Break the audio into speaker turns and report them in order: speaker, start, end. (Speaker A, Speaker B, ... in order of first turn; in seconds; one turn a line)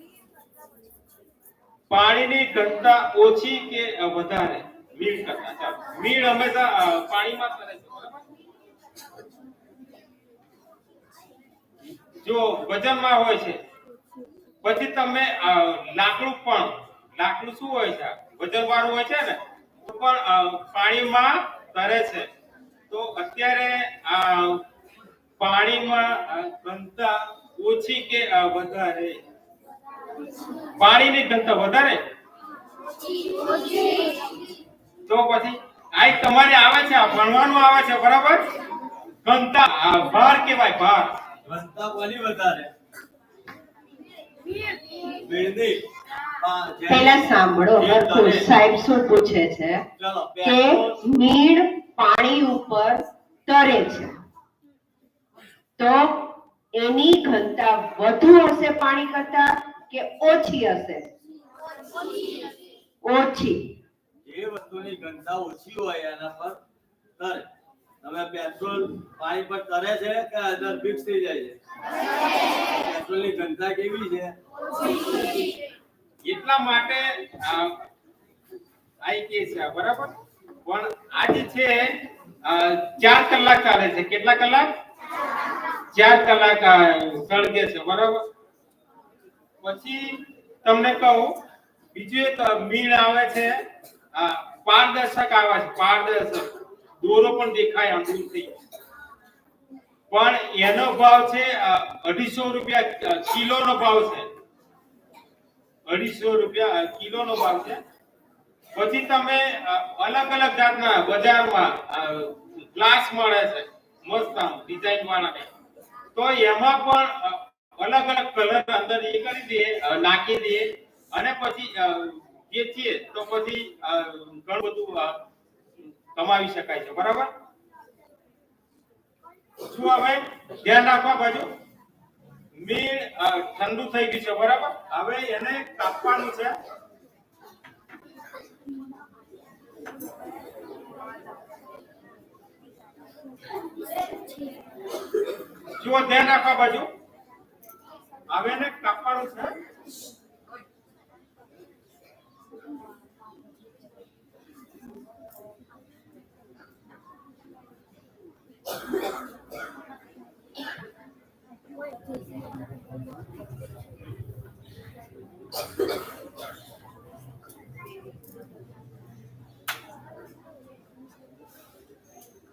Speaker A: 1.9-8.2
Speaker A: 12.2-13.6
Speaker A: 14.6-22.3
Speaker A: 22.9-24.6
Speaker A: 25.4-29.2
Speaker A: 30.8-32.0
Speaker A: 35.1-38.5
Speaker A: 39.2-41.2
Speaker B: 41.5-42.7
Speaker B: 45.0-45.8
Speaker B: 46.4-48.5
Speaker C: 46.9-49.8
Speaker A: 48.2-48.5
Speaker B: 50.0-51.0
Speaker C: 50.4-54.2
Speaker C: 55.8-61.1
Speaker C: 63.0-63.8
Speaker B: 64.2-66.6
Speaker B: 67.2-67.5
Speaker B: 68.0-71.6
Speaker B: 72.6-74.4
Speaker A: 76.2-77.8
Speaker A: 79.0-80.1
Speaker A: 80.7-81.9
Speaker A: 82.4-84.7
Speaker A: 85.9-88.2
Speaker A: 89.6-91.4
Speaker A: 91.9-93.6
Speaker A: 94.1-98.5
Speaker A: 100.1-104.3
Speaker A: 105.9-107.8
Speaker A: 108.8-115.5
Speaker A: 116.2-125.2
Speaker A: 125.9-127.3
Speaker A: 129.6-131.5
Speaker A: 132.5-136.6
Speaker A: 145.8-146.9
Speaker A: 148.3-149.6